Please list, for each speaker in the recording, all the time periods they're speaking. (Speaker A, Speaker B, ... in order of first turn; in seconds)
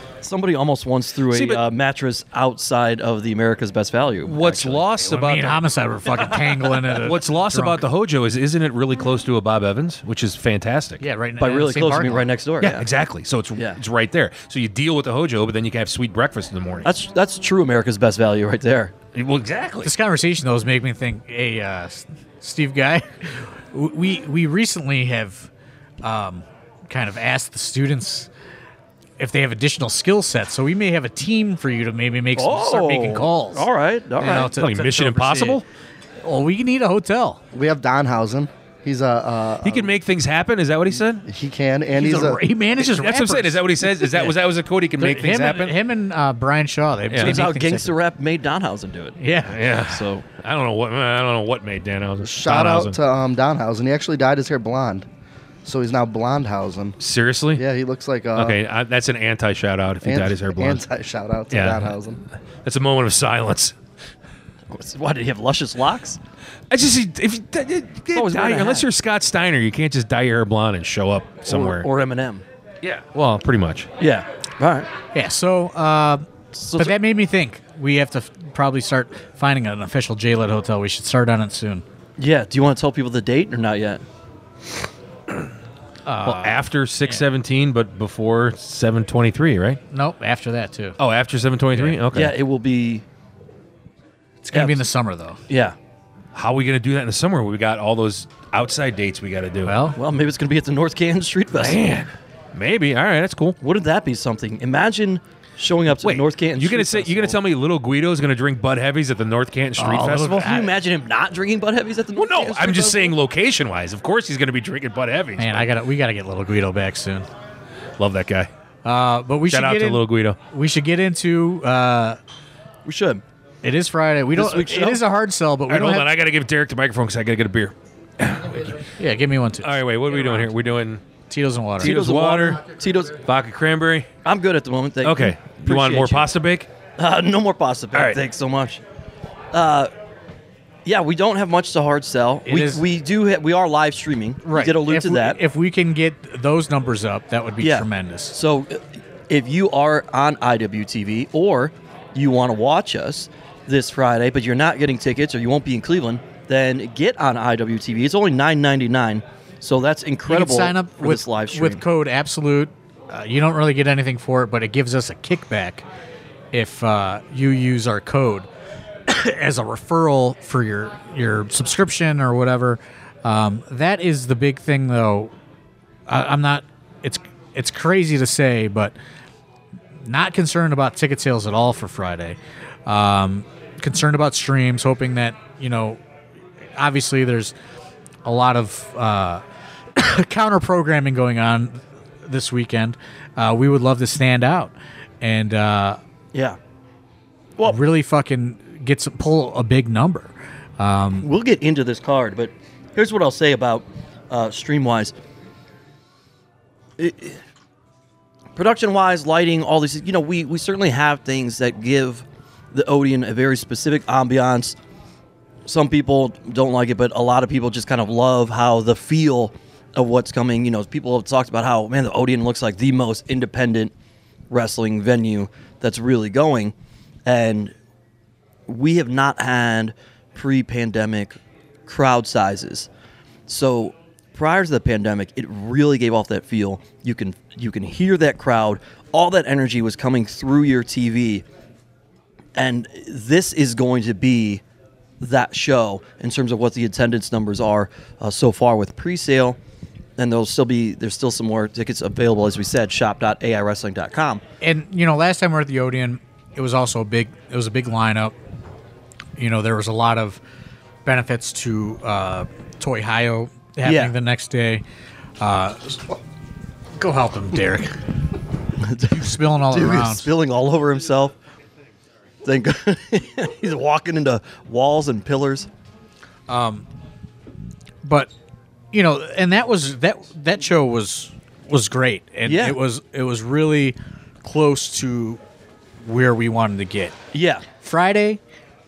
Speaker A: 0.2-4.8, 11.4-12.9, 16.8-18.9, 32.4-34.5, 47.2-49.2, 49.7-50.2, 64.7-66.2, 68.1-68.8, 71.5-72.4, 74.0-74.9, 76.5-77.0, 82.2-84.0, 92.1-93.0, 94.5-94.8, 95.5-95.8, 99.9-101.9, 103.6-107.4, 110.3-113.1, 122.8-123.2, 124.3-125.0, 131.8-133.2, 134.2-136.3, 137.0-138.8, 139.5-139.9, 140.8-145.4, 147.6-161.8, 201.2-205.1, 207.0-207.4, 208.6-214.8, 215.6-223.9, 224.5-226.7, 227.2-227.7, 228.7-232.9, 233.5-241.4, 242.5-244.6, 245.2-249.6, 250.2-254.4, 263.8-264.1, 268.8-271.3, 272.4-275.7, 282.4-282.8, 287.3-287.6
Speaker B: 1.3-1.6, 4.2-5.6, 6.4-11.0, 12.6-16.9, 19.1-19.9, 34.3-35.6, 39.6-41.2, 42.8-45.7, 47.1-47.4, 49.5-53.0, 57.0-57.6, 58.3-60.8, 61.5-61.9, 62.6-63.8, 66.7-71.9, 72.8-73.9, 86.2-89.8, 91.0-92.3, 96.3-99.8, 101.5-103.6, 106.0-110.5, 112.2-115.7, 118.0-118.5, 119.5-120.4, 125.7-128.8, 129.6-131.0, 131.8-132.6, 133.2-134.1, 135.0-136.7, 137.9-138.2
Speaker C: 5.0-7.8, 11.0-12.3, 19.8-25.5, 26.0-28.3, 29.2-33.6, 34.2-35.6, 36.2-37.4, 41.9-44.3, 45.0-48.0, 49.2-49.7, 75.1-81.8, 86.0-87.2, 89.9-91.0, 91.7-92.0, 94.4-95.4, 99.6-100.0, 109.8-110.8, 115.4-117.3, 118.8-122.2, 123.6-126.1, 128.8-129.8, 131.3-132.0, 142.4-142.8, 144.4-148.3, 160.3-165.8, 166.5-168.5, 169.1-175.3, 176.1-178.9, 180.0-186.0, 186.8-187.5, 188.2-189.4, 189.9-196.0, 197.7-201.3, 254.6-258.3, 259.4-260.4, 261.0-264.8, 265.4-266.2, 267.0-268.0, 269.0-270.3, 276.5-276.9, 278.0-278.3, 278.9-285.4, 286.0-287.1, 287.8-288.4
Speaker D: 37.5-39.9, 41.2-42.4, 52.2-55.1, 55.6-57.0, 57.5-58.6, 60.0-62.2